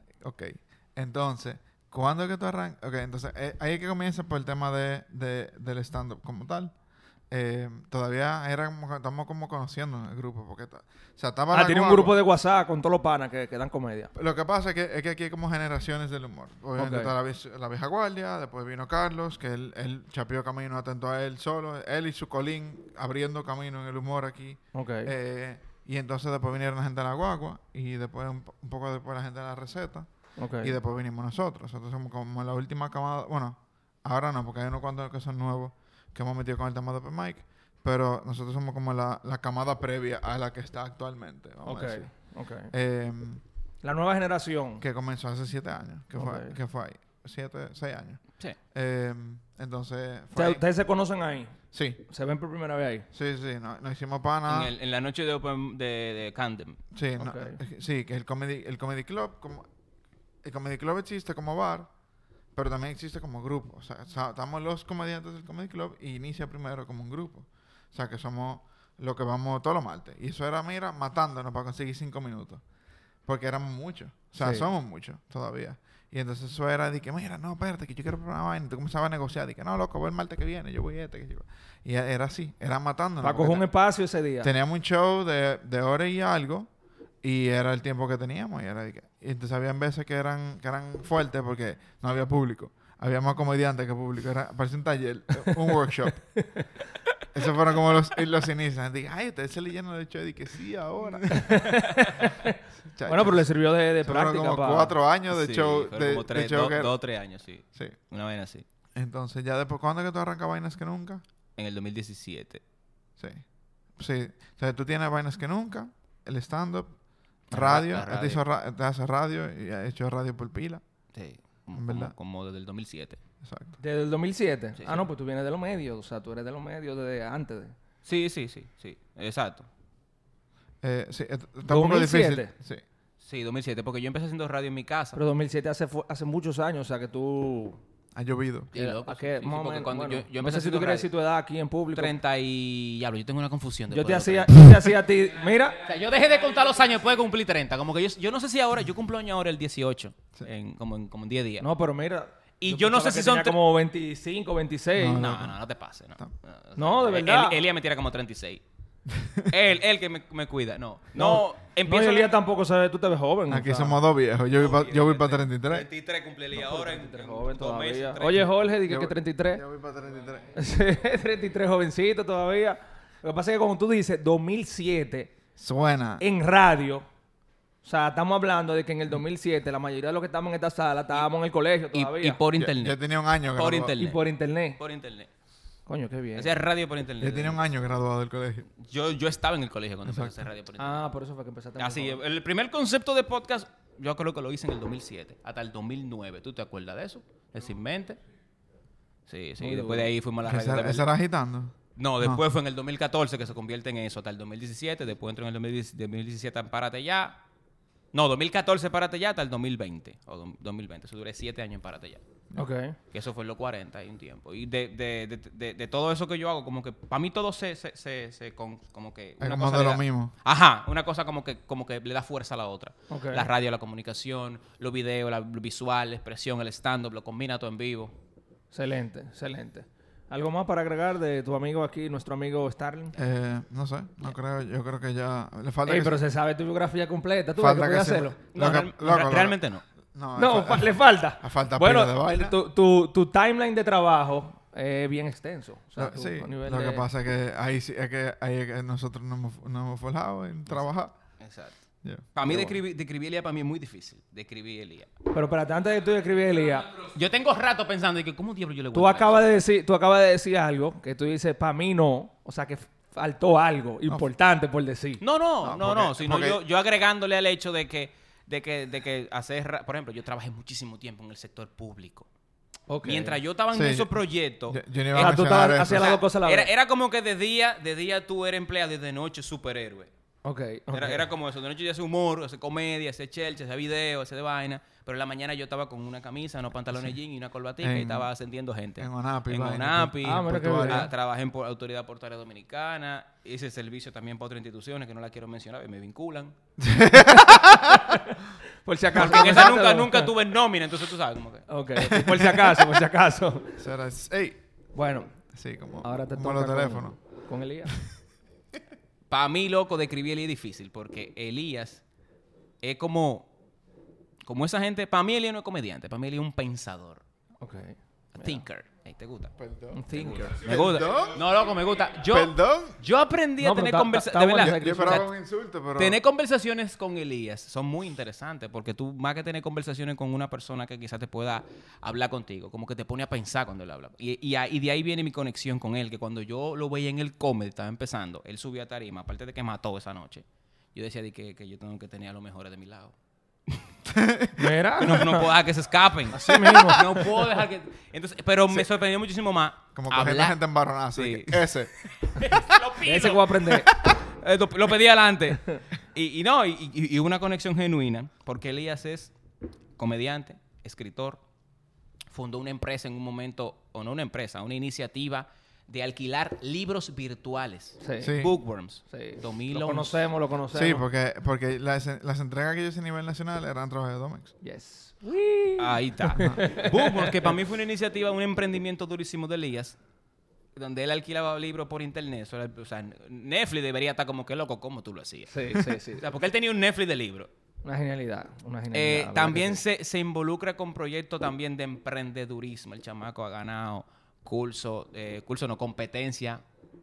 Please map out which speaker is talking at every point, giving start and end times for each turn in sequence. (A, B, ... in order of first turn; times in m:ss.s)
0:00.2-0:06.7 A
0:07.3-0:12.1 A
0:11.5-0:14.1 B
0:14.1-0:30.1 A
0:16.8-0:17.1 B
0:24.7-0:25.1 B
0:30.4-0:30.8 B
0:30.6-0:42.1 A
0:41.6-0:42.7 B
0:42.7-0:43.4 A
0:43.8-0:44.8 B
0:44.8-0:50.6 A
0:46.2-0:46.5 B
0:50.3-0:51.5 B
0:51.7-0:52.0 A
0:52.1-0:53.0 B
0:53.1-0:54.7 A
0:54.5-0:56.8 C
0:56.9-0:59.7 A
0:57.2-0:57.6 B
1:00.4-1:01.9 A
1:02.5-1:12.6 A
1:13.2-1:23.6 A
1:14.4-1:14.7 B
1:23.2-1:24.5 B
1:24.4-1:26.7 A
1:27.2-1:36.2 A
1:36.4-1:36.7 B
1:37.3-1:41.7 A
1:41.3-1:44.9 B
1:42.8-1:47.0 A
1:45.3-1:48.6 C
1:48.9-1:51.2 A
1:51.6-1:52.6 C
1:53.2-1:53.4 A
1:54.0-1:57.0 A
1:57.5-2:00.8 A
1:57.5-1:58.4 C
2:01.1-2:03.2 C
2:01.7-2:02.1 A
2:03.4-2:03.8 A
2:03.8-2:07.7 B
2:04.8-2:05.0 C
2:08.0-2:09.7 C
2:10.8-2:12.8 A
2:11.7-2:12.5 B
2:13.2-2:15.2 C
2:15.2-2:17.8 B
2:18.1-2:18.7 A
2:18.7-2:21.1 C
2:18.7-2:22.1 B
2:21.9-2:24.6 C
2:23.9-2:25.8 B
2:25.8-2:31.6 C
2:31.6-2:35.3 B
2:32.6-2:33.6 C
2:34.9-2:35.5 A
2:35.0-2:38.6 C
2:36.8-2:37.6 B
2:39.1-2:39.5 A
2:39.5-2:42.4 C
2:41.1-2:44.0 B
2:43.5-2:45.9 A
2:44.5-2:48.6 C
2:46.5-2:49.6 B
2:48.8-2:50.5 A
2:50.5-2:55.3 B
2:55.6-2:56.2 A
2:56.2-2:57.0 B
2:57.8-3:02.4 B
3:01.9-3:05.3 C
3:02.6-3:04.0 A
3:04.0-3:04.8 B
3:05.9-3:06.5 B
3:06.4-3:07.6 C
3:07.2-3:08.7 A
3:08.8-3:11.0 C
3:10.0-3:10.4 A
3:10.8-3:12.2 B
3:11.8-3:18.2 C
3:19.3-3:21.1 C
3:19.6-3:20.1 B
3:20.4-3:22.4 A
3:22.0-3:27.4 C
3:28.1-3:32.2 C
3:32.5-3:33.0 B
3:33.1-3:48.1 C
3:39.4-3:40.3 A
3:43.1-3:43.5 B
3:48.7-3:53.1 B
3:53.1-3:56.2 A
3:55.8-3:58.4 B
3:57.6-3:59.6 A
3:58.5-3:59.8 C
4:00.1-4:02.6 A
4:00.4-4:07.0 B
4:06.0-4:11.1 A
4:11.4-4:11.7 C
4:12.3-4:15.1 C
4:12.5-4:12.7 B
4:15.3-4:16.9 B
4:17.1-4:19.4 C
4:18.9-4:25.2 B
4:25.2-4:32.3 C
4:25.6-4:26.6 A
4:32.9-4:33.4 B
4:33.0-4:40.1 C
4:33.7-4:34.1 A
4:34.7-4:36.2 A
4:35.1-4:36.7 B
4:40.4-4:41.2 B
4:40.9-4:56.5 C
4:47.8-4:48.3 A
4:49.0-4:51.1 A
4:50.2-4:51.1 B
4:56.8-4:58.0 A
4:57.4-5:00.3 B
4:59.1-5:01.7 C
5:01.7-5:03.8 B
5:02.2-5:02.8 A
5:03.8-5:04.6 A
5:04.9-5:05.3 B
5:05.5-5:07.2 A
5:06.0-5:07.9 B
5:09.3-5:12.0 C
5:12.8-5:13.5 C
5:14.4-5:17.2 C
5:17.6-5:18.6 B
5:18.4-5:19.5 C
5:19.6-5:21.5 A
5:19.9-5:20.6 B
5:20.1-5:25.3 C
5:22.3-5:23.0 A
5:23.6-5:25.2 B
5:24.6-5:26.2 A
5:26.0-5:43.1 C
5:44.0-5:44.7 A
5:44.6-5:45.5 B
5:45.0-5:50.6 C
5:46.3-5:47.2 B
5:46.5-5:47.1 A
5:50.0-5:51.9 A
5:51.1-5:59.3 C
5:53.0-5:53.9 B
6:00.0-6:01.4 C
6:02.3-6:10.2 C
6:08.0-6:08.3 B
6:08.2-6:08.5 A
6:09.1-6:11.0 B
6:10.7-6:14.5 A
6:14.6-6:17.5 B
6:15.8-6:20.0 C
6:20.8-6:25.5 C
6:25.5-6:26.2 B
6:26.1-6:27.5 C
6:27.8-6:29.8 B
6:28.9-6:36.6 C